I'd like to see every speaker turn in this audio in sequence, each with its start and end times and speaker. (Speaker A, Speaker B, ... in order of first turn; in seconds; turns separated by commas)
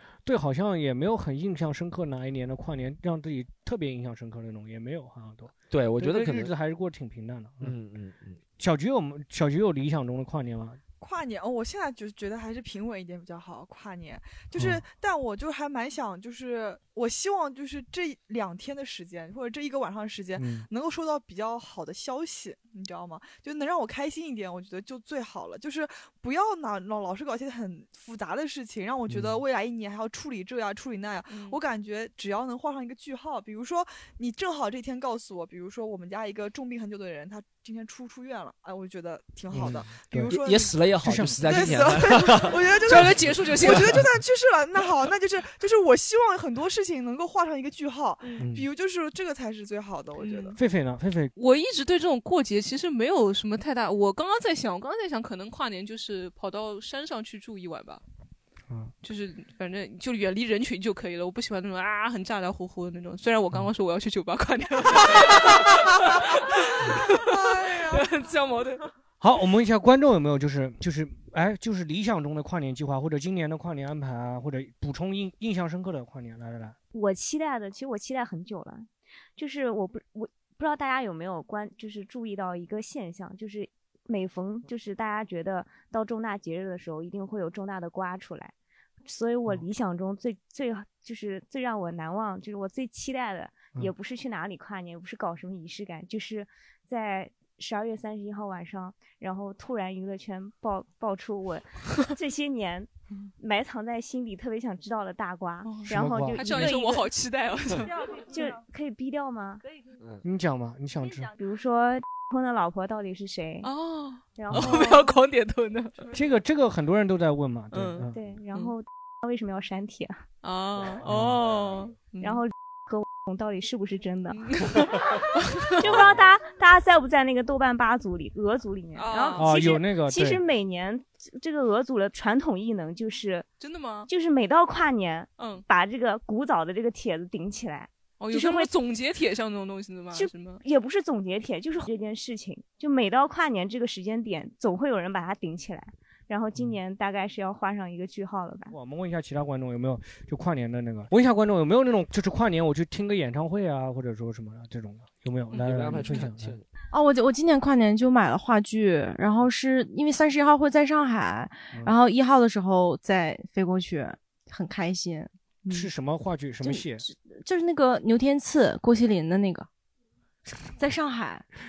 Speaker A: 0.3-7.8, Speaker B: 5.7-6.5, Speaker B: 7.6-8.4, Speaker A: 8.6-10.8, Speaker C: 11.0-40.8, Speaker A: 14.6-14.8, Speaker A: 20.4-20.7, Speaker A: 29.1-29.4, Speaker D: 31.3-31.6, Speaker A: 39.5-40.4, Speaker B: 40.4-42.6, Speaker A: 41.0-41.4, Speaker C: 41.4-50.6, Speaker D: 42.8-44.0, Speaker A: 48.4-48.7, Speaker D: 50.2-50.6, Speaker A: 50.5-51.3, Speaker D: 51.4-58.0, Speaker D: 59.0-68.9, Speaker C: 67.3-68.1, Speaker A: 69.2-76.8, Speaker E: 76.9-88.5, Speaker E: 89.1-107.1, Speaker D: 105.7-108.2, Speaker A: 105.8-106.7, Speaker E: 108.1-109.6, Speaker A: 110.2-111.3, Speaker E: 111.4-113.7, Speaker D: 113.6-116.0, Speaker E: 114.3-115.2, Speaker A: 114.5-114.9, Speaker A: 116.1-118.2, Speaker D: 117.7-118.7, Speaker E: 118.1-120.2, Speaker D: 120.4-122.4, Speaker A: 121.0-121.4, Speaker E: 122.1-124.9, Speaker D: 124.3-126.2, Speaker E: 125.8-133.5, Speaker D: 128.9-129.6, Speaker A: 129.4-130.4, Speaker D: 133.6-134.1, Speaker E: 134.1-138.7, Speaker D: 135.4-135.7, Speaker D: 138.2-140.6, Speaker E: 140.1-148.7, Speaker A: 148.7-156.6, Speaker B: 155.6-156.7, Speaker F: 156.9-165.9, Speaker A: 165.7-167.0, Speaker F: 166.6-169.7, Speaker F: 170.8-171.4